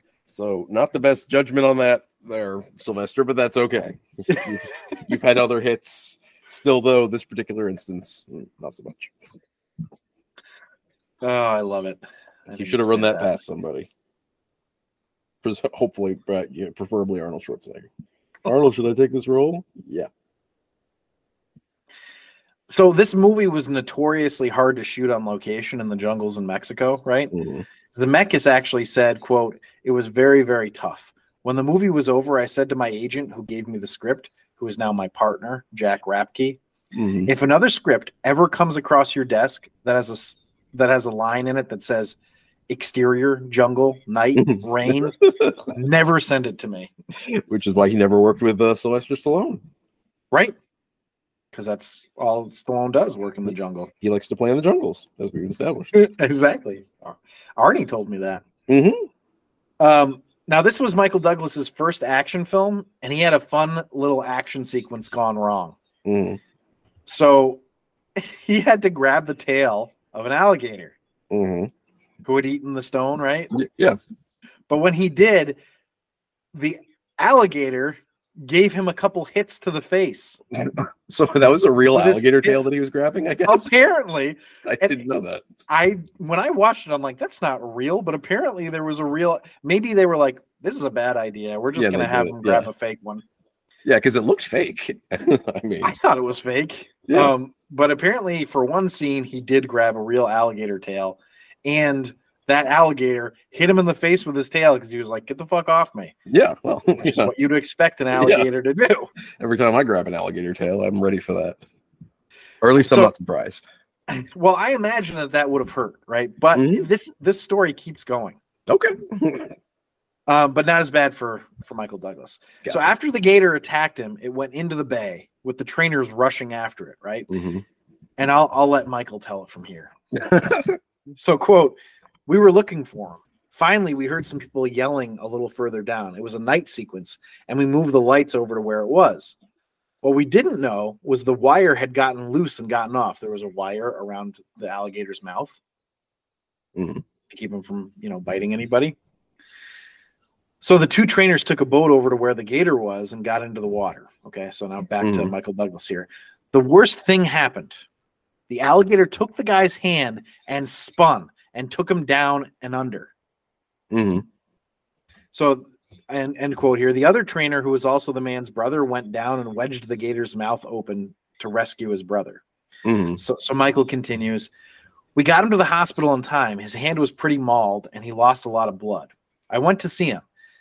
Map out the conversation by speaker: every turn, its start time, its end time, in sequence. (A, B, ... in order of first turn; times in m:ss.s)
0:00.3-0:09.1 A
0:11.2-0:13.3 B
0:12.5-0:13.9 A
0:15.4-0:17.9 A
0:18.4-0:20.1 A
0:22.7-0:27.3 B
0:27.3-0:27.6 A
0:27.9-0:36.6 B
0:36.9-0:37.3 A
0:37.3-0:42.2 B
0:42.7-0:46.9 B
0:44.4-0:45.6 A
0:47.2-0:49.6 A
0:51.5-0:53.9 B
0:53.5-0:55.9 A
0:55.9-0:58.4 B
0:58.7-0:59.1 A
0:59.8-1:05.8 B
1:06.0-1:06.4 A
1:07.1-1:07.6 B
1:08.2-1:11.0 B
1:11.3-1:11.7 A
1:12.2-1:13.5 B
1:13.5-1:14.0 A
1:14.7-1:15.6 B
1:16.5-1:20.4 B
1:20.5-1:23.7 A
1:21.9-1:22.6 B
1:23.4-1:25.0 B
1:24.6-1:25.4 A
1:25.7-1:33.2 B
1:31.8-1:32.7 A
1:33.8-1:36.0 A
1:35.8-1:46.1 B
1:37.1-1:37.3 A
1:46.3-1:47.3 A
1:47.0-1:49.1 B
1:48.2-1:48.5 A
1:49.4-1:51.6 A
1:52.6-1:53.7 A
1:52.9-1:53.1 B
1:54.1-1:58.4 B
1:56.5-1:56.8 A
1:58.7-1:59.5 A
2:00.3-2:07.3 B
2:02.6-2:02.9 A
2:07.3-2:07.6 A
2:08.2-2:09.9 B
2:10.1-2:10.8 A
2:11.2-2:19.4 B
2:20.0-2:25.6 B
2:26.8-2:27.0 A
2:27.3-2:29.0 B
2:30.6-2:37.8 B
2:35.0-2:35.3 A
2:38.5-2:43.1 B
2:43.9-2:44.2 A
2:45.3-2:52.4 B
2:52.8-2:53.2 A
2:53.2-2:54.5 B
2:55.2-3:00.2 B